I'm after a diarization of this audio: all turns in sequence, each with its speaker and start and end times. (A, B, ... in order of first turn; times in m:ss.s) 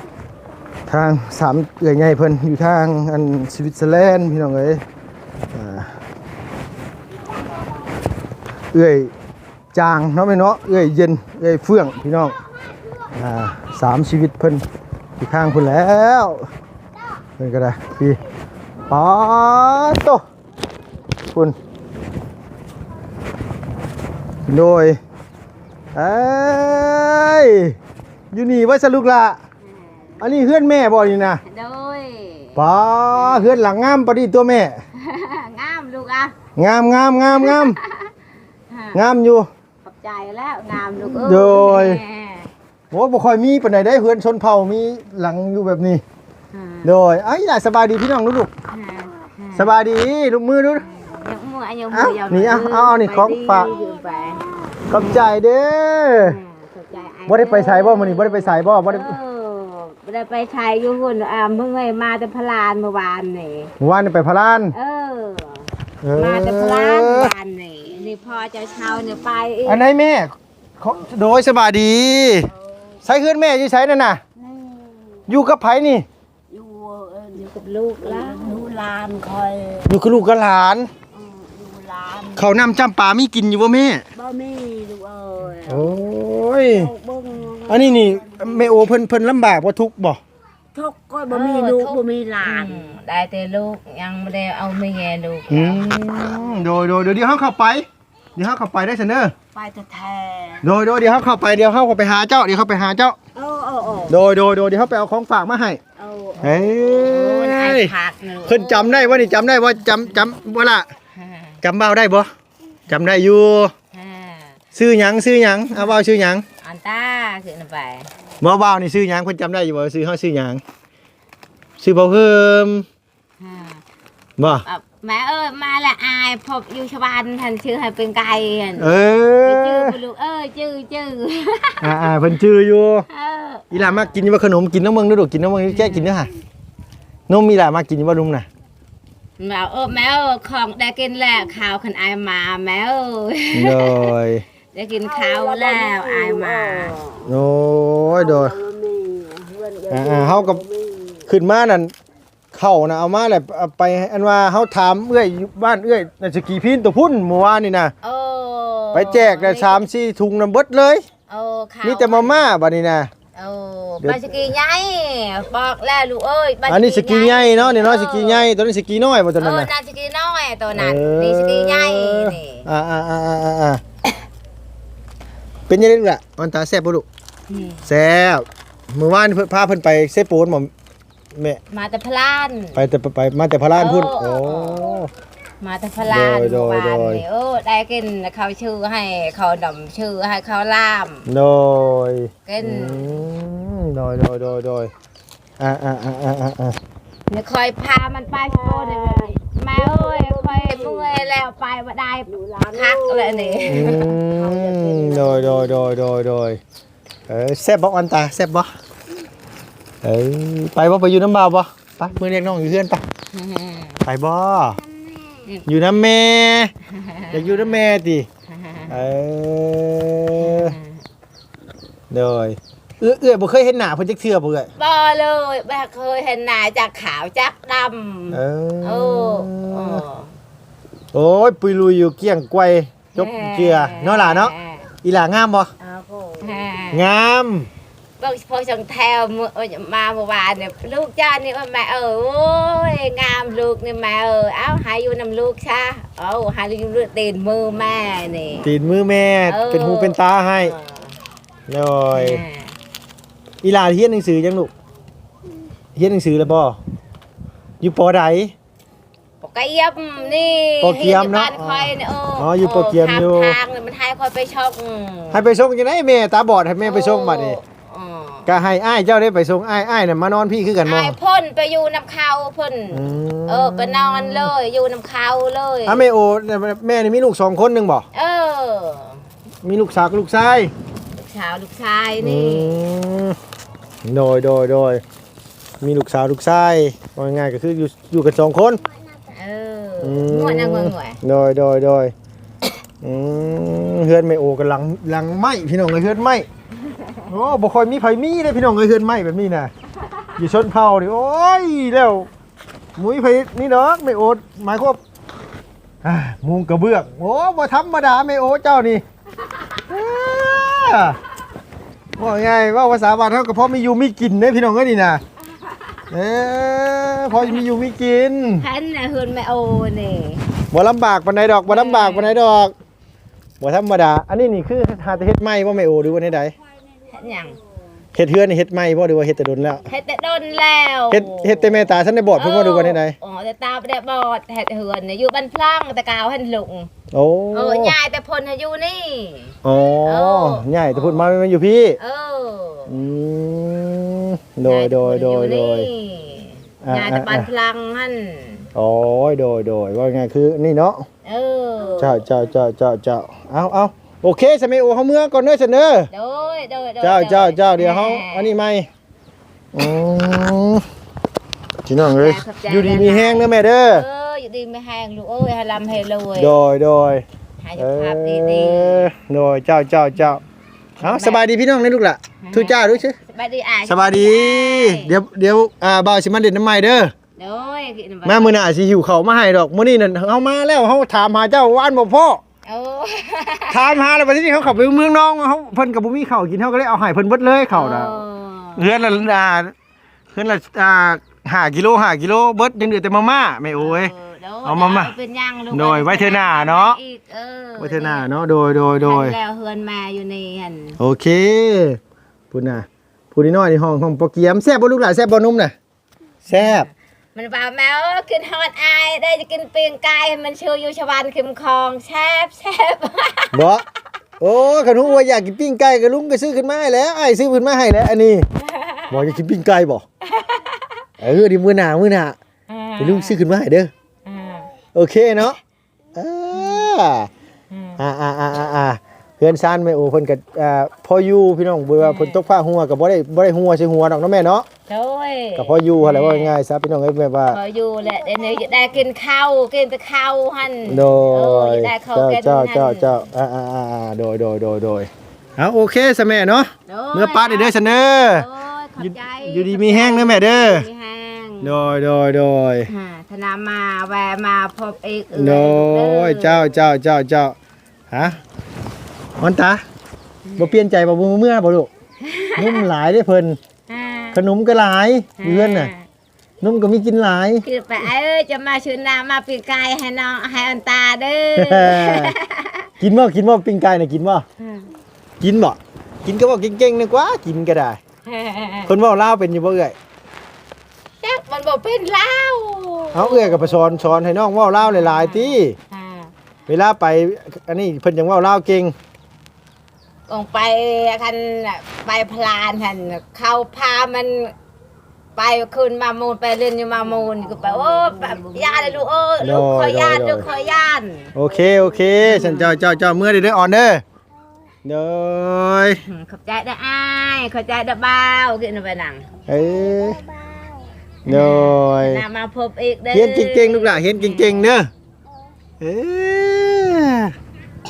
0:00.9-0:04.8 A
0:05.5-0:05.9 A
0:08.7-0:09.1 A
0:09.7-0:12.4 A
0:13.2-0:14.6 A
0:15.2-0:16.4 A
0:17.4-0:18.2 A
0:18.9-0:20.2 A
0:24.5-0:25.0 A
0:25.9-0:27.8 A
0:28.3-0:29.4 A
0:29.7-0:30.3 B
0:30.2-0:31.4 A
0:31.4-0:32.6 B
0:32.6-0:34.8 A
0:33.1-0:33.5 B
0:34.9-0:36.3 B
0:36.6-0:37.8 A
0:37.4-0:38.1 B
0:38.7-0:39.0 B
0:38.9-0:39.5 A
0:39.8-0:42.5 B
0:41.0-0:42.0 A
0:42.9-0:46.0 A
0:46.5-0:46.9 B
0:46.8-0:48.5 A
0:48.7-0:49.7 B
0:49.5-0:50.8 A
0:50.8-0:55.3 B
0:51.9-0:53.7 A
0:54.9-0:56.4 A
0:56.2-1:03.7 B
0:57.3-0:59.2 A
1:03.8-1:04.7 A
1:04.7-1:09.8 B
1:06.0-1:07.3 A
1:09.6-1:12.5 A
1:13.0-1:14.2 A
1:15.3-1:16.0 A
1:16.5-1:17.4 C
1:17.3-1:18.7 B
1:18.0-1:19.8 C
1:19.8-1:20.9 A
1:21.2-1:22.3 C
1:22.4-1:24.0 A
1:24.2-1:25.8 C
1:25.6-1:26.9 A
1:27.0-1:28.0 C
1:27.7-1:30.2 A
1:30.8-1:32.8 C
1:31.3-1:36.6 B
1:35.5-1:39.3 A
1:40.6-1:43.2 A
1:43.4-1:44.0 C
1:44.1-1:45.8 A
1:46.2-1:49.7 B
1:46.4-1:47.9 A
1:48.4-1:50.9 A
1:51.1-1:51.6 B
1:51.6-1:52.3 A
1:52.9-1:53.7 A
1:53.9-1:54.6 B
1:54.7-1:56.4 A
1:56.6-1:58.1 B
1:58.4-2:00.6 A
2:01.8-2:02.8 A
2:03.4-2:03.8 B
2:04.4-2:04.6 A
2:04.5-2:12.1 B
2:08.8-2:10.0 A
2:11.8-2:13.0 A
2:13.1-2:14.1 B
2:13.7-2:16.3 A
2:15.7-2:16.1 B
2:17.3-2:18.5 A
2:19.4-2:24.1 B
2:23.5-2:24.4 A
2:24.7-2:27.0 B
2:25.1-2:27.0 C
2:27.2-2:28.6 A
2:28.2-2:30.9 C
2:29.9-2:30.6 A
2:31.3-2:31.9 A
2:32.5-2:37.9 A
2:38.0-2:39.8 B
2:38.9-2:41.0 A
2:41.3-2:42.4 B
2:41.8-2:43.1 A
2:43.3-2:48.4 B
2:46.7-2:49.7 A
2:49.4-2:52.6 B
2:50.7-2:53.8 A
2:55.7-2:57.0 A
2:57.5-2:57.8 B
2:57.8-3:00.7 A
3:01.3-3:01.6 A
3:01.7-3:02.8 B
3:02.7-3:05.1 A
3:03.8-3:04.8 B
3:05.6-3:11.2 B
3:06.0-3:07.2 A
3:11.3-3:14.9 A
3:12.4-3:13.2 B
3:15.6-3:16.8 A
3:17.3-3:24.1 B
3:18.5-3:19.2 C
3:19.8-3:21.0 C
3:22.7-3:25.6 C
3:23.7-3:26.6 A
3:27.3-3:28.7 A
3:30.0-3:33.0 A
3:33.3-3:34.0 B
3:34.0-3:34.8 A
3:35.6-3:36.7 A
3:37.0-3:37.6 B
3:37.3-3:38.3 A
3:38.5-3:38.9 B
3:38.9-3:40.8 A
3:40.4-3:40.9 B
3:42.1-3:44.7 A
3:44.8-3:50.3 B
3:48.3-3:50.0 A
3:51.1-3:55.7 A
3:53.2-3:54.8 B
3:55.8-3:57.0 B
3:56.9-3:57.7 A
3:58.2-4:08.7 B
4:08.6-4:10.7 A
4:09.5-4:11.1 B
4:11.7-4:12.4 A
4:12.1-4:12.7 B
4:13.6-4:14.7 A
4:15.9-4:16.8 A
4:17.8-4:18.5 A
4:19.4-4:25.4 B
4:20.8-4:23.6 A
4:25.3-4:27.6 A
4:26.8-4:28.5 B
4:28.4-4:31.1 A
4:30.8-4:36.0 B
4:32.9-4:34.5 A
4:35.8-4:38.0 A
4:38.1-4:39.2 B
4:39.6-4:40.7 A
4:41.2-4:42.8 B
4:42.2-4:43.4 A
4:44.0-4:45.0 A
4:45.8-4:48.8 A
4:49.3-4:51.2 B
4:50.0-4:52.1 A
4:53.0-4:56.5 A
4:56.9-4:57.1 B
4:57.3-4:59.7 A
5:00.4-5:02.3 A
5:03.0-5:05.0 A
5:06.0-5:09.0 A
5:09.9-5:11.2 A
5:12.2-5:15.2 A
5:16.1-5:18.6 A
5:18.6-5:20.4 B
5:20.7-5:22.7 A
5:21.7-5:22.4 B
5:23.6-5:26.5 A
5:27.1-5:27.6 B
5:28.1-5:29.8 A
5:29.8-5:36.9 B
5:31.1-5:33.1 A
5:37.1-5:37.9 A
5:37.5-5:41.3 B
5:39.6-5:42.0 A
5:42.0-5:42.9 B
5:42.9-5:45.9 A
5:44.6-5:48.7 B
5:46.8-5:47.5 A
5:48.7-5:51.0 A
5:51.2-5:52.2 B
5:52.0-5:56.1 A
5:56.1-5:58.5 B
5:57.0-5:58.9 A
5:59.7-6:00.8 A
6:01.8-6:04.0 A
6:02.1-6:06.5 B
6:06.4-6:07.2 A
6:07.6-6:09.1 B
6:07.8-6:10.4 A
6:11.0-6:11.4 B
6:11.0-6:13.2 A
6:12.4-6:15.1 B
6:13.8-6:17.1 A
6:17.4-6:18.6 B
6:18.2-6:22.4 A
6:22.6-6:24.0 B
6:23.7-6:28.2 A
6:27.7-6:28.8 B
6:28.8-6:29.7 A
6:30.3-6:34.1 A
6:33.8-6:38.2 B
6:34.6-6:35.1 A
6:35.7-6:37.0 A
6:37.8-6:39.4 A
6:39.0-6:41.0 B
6:41.0-6:42.0 A
6:42.5-6:45.7 A
6:46.4-6:46.9 A
6:46.5-6:53.5 B
6:53.5-6:53.8 A
6:54.4-6:58.5 A
6:58.6-6:59.1 B
6:59.1-7:00.0 A
7:00.2-7:01.0 B
7:01.2-7:02.4 A
7:02.7-7:03.4 B
7:03.0-7:03.9 A
7:04.2-7:04.7 B
7:04.9-7:05.6 A
7:06.1-7:07.3 A
7:07.7-7:08.0 B
7:08.0-7:14.7 A
7:12.0-7:12.4 B
7:14.9-7:16.5 B
7:15.6-7:17.6 A
7:17.5-7:23.2 B
7:20.9-7:28.5 A
7:26.9-7:31.8 B
7:29.0-7:30.9 A
7:31.6-7:32.9 A
7:32.9-7:36.7 B
7:35.3-7:37.6 A
7:38.1-7:38.4 A
7:39.4-7:39.8 A
7:40.4-7:40.7 B
7:40.6-7:41.9 A
7:42.2-7:42.8 B
7:42.6-7:43.6 A
7:43.9-7:44.4 B
7:44.3-7:45.9 A
7:45.4-7:46.0 B
7:46.6-7:47.6 A
7:47.6-7:52.9 B
7:51.6-7:52.3 A
7:53.0-7:54.4 A
7:54.6-7:54.9 B
7:55.4-7:58.0 A
7:58.2-7:58.9 B
7:58.9-8:00.0 A
8:01.2-8:03.8 B
8:03.1-8:05.7 A
8:04.8-8:06.3 B
8:06.7-8:08.9 A
8:10.3-8:14.5 B
8:15.4-8:21.3 B
8:19.4-8:20.4 A
8:21.3-8:24.0 A
8:22.2-8:22.8 B
8:24.8-8:26.0 A
8:26.0-8:29.2 B
8:29.5-8:30.2 A
8:31.2-8:32.2 A
8:31.3-8:34.7 B
8:33.1-8:34.9 A
8:35.8-8:37.3 A